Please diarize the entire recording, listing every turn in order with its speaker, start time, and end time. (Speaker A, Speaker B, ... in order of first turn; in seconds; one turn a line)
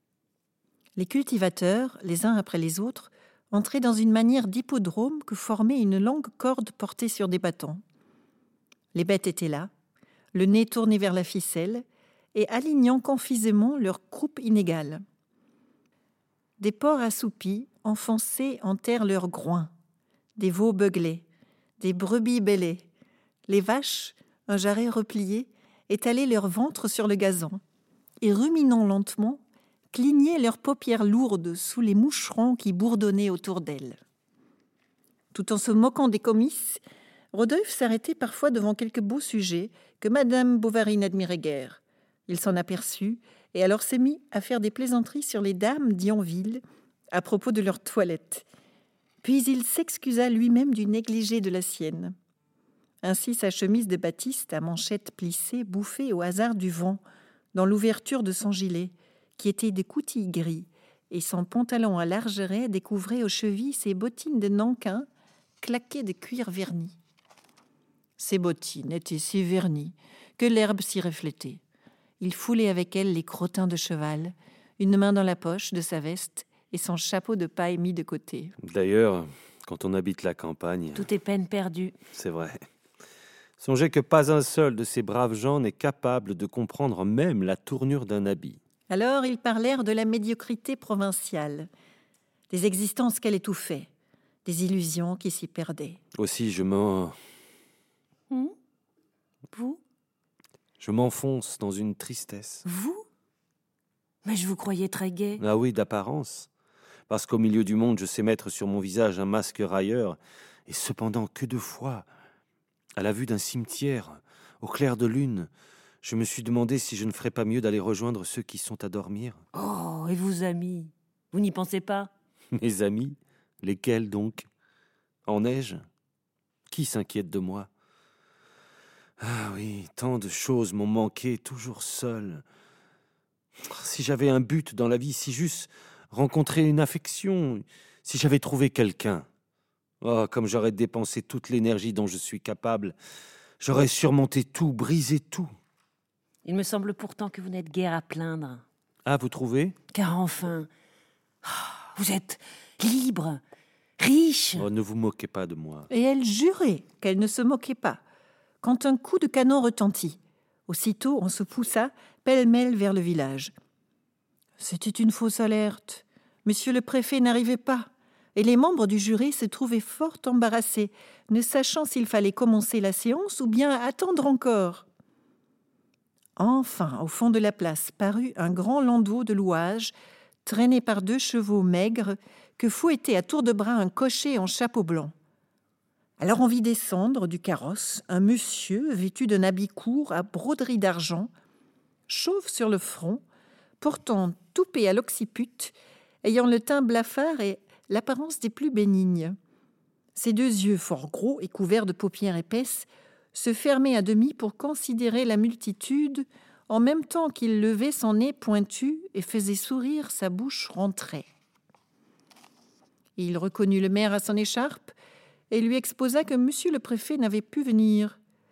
Speaker A: 1.0-7.8
Speaker A: 8.9-9.7
Speaker A: 10.3-15.0
Speaker A: 16.6-19.7
Speaker A: 20.4-21.2
Speaker A: 21.8-22.9
Speaker A: 23.5-27.6
Speaker A: 28.2-29.4
Speaker A: 29.9-34.0
Speaker A: 35.3-36.8
Speaker A: 37.3-46.6
Speaker A: 47.1-48.5
Speaker A: 49.2-52.1
Speaker A: 53.0-57.0
Speaker A: 57.5-65.1
Speaker A: 65.6-67.0
Speaker A: 68.2-71.6
Speaker A: 72.2-78.5
Speaker B: 78.6-81.1
Speaker C: 81.0-82.0
Speaker B: 82.1-82.6
Speaker B: 83.6-88.6
Speaker A: 88.9-91.7
Speaker A: 92.5-93.9
Speaker A: 94.5-96.0
Speaker B: 96.2-97.2
Speaker C: 99.5-99.8
Speaker B: 100.8-102.6
Speaker C: 102.7-103.0
Speaker C: 104.2-105.4
Speaker B: 105.4-106.5
Speaker B: 107.1-112.1
Speaker B: 113.0-115.5
Speaker B: 116.0-119.4
Speaker C: 119.5-122.1
Speaker B: 122.5-124.5
Speaker B: 125.3-125.8
Speaker B: 126.7-127.7
Speaker B: 129.2-132.4
Speaker B: 133.7-139.3
Speaker B: 140.0-143.0
Speaker B: 143.6-145.5
Speaker C: 146.4-148.6
Speaker B: 149.1-149.8
Speaker C: 149.9-150.7
Speaker C: 151.4-153.4
Speaker C: 154.0-154.7
Speaker B: 154.6-155.9
Speaker A: 155.9-158.0
Speaker A: 158.6-163.5
Speaker A: 164.6-174.8
Speaker A: 176.4-179.9
Speaker A: 180.4-185.1
Speaker A: 186.2-191.3
Speaker A: 192.1-193.2
Speaker A: 193.8-199.4
Speaker A: 200.2-211.3
Speaker A: 213.2-214.9
Speaker A: 215.5-218.2